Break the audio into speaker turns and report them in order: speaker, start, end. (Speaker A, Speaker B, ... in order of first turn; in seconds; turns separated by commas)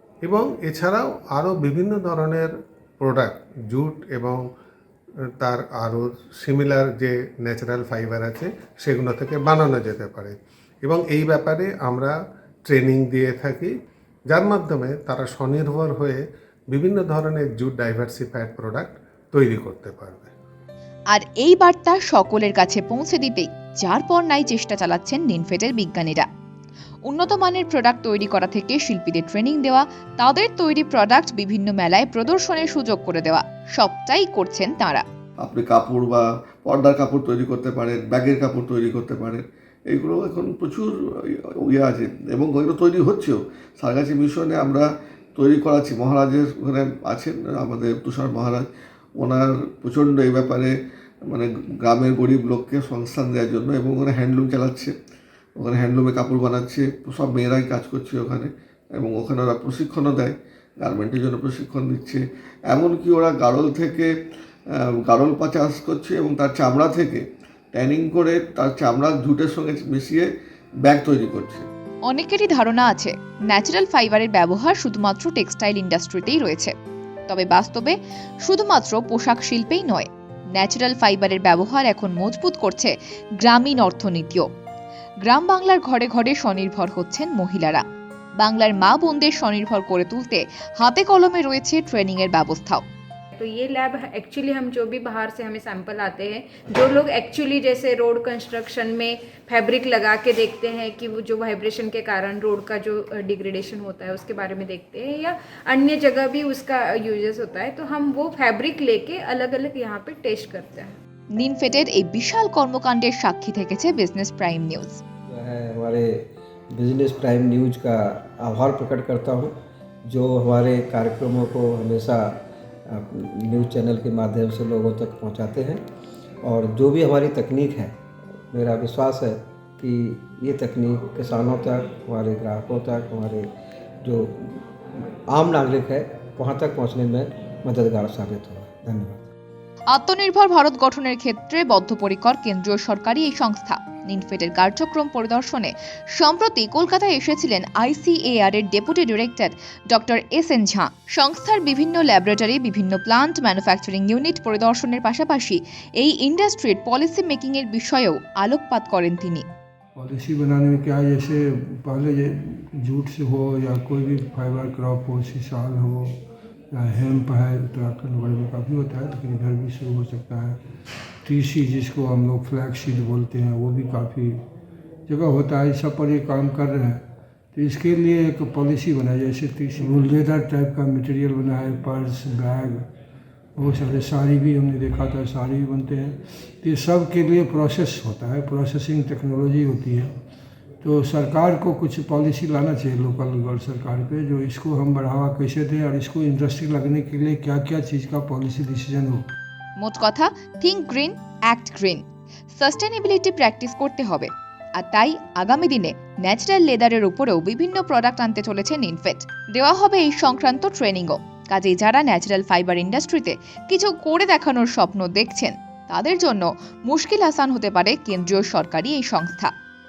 Speaker A: 0.2-4.5, Speaker A: 5.4-13.7, Speaker A: 14.3-16.2, Speaker A: 16.7-20.3, Speaker B: 21.1-26.3, Speaker B: 27.1-35.0, Speaker C: 35.4-40.9, Speaker C: 41.6-48.6, Speaker C: 49.2-50.7, Speaker C: 51.3-54.9, Speaker C: 55.6-64.1, Speaker C: 65.0-70.3, Speaker C: 70.8-71.7, Speaker B: 72.0-76.7, Speaker B: 77.3-84.5, Speaker B: 85.2-87.8, Speaker B: 88.4-92.8, Speaker D: 93.3-110.9, Speaker B: 111.4-115.0, Speaker E: 115.3-119.5, Speaker E: 120.1-122.4, Speaker E: 122.9-125.8, Speaker E: 126.5-127.9, Speaker E: 128.5-133.4, Speaker E: 134.0-134.6, Speaker E: 135.3-139.3, Speaker B: 139.9-159.4, Speaker F: 159.9-166.2, Speaker F: 166.7-170.6, Speaker F: 171.2-174.4, Speaker F: 175.1-177.0, Speaker F: 177.5-182.8, Speaker F: 183.6-190.1, Speaker F: 190.8-199.3, Speaker B: 199.8-202.0, Speaker B: 202.5-219.5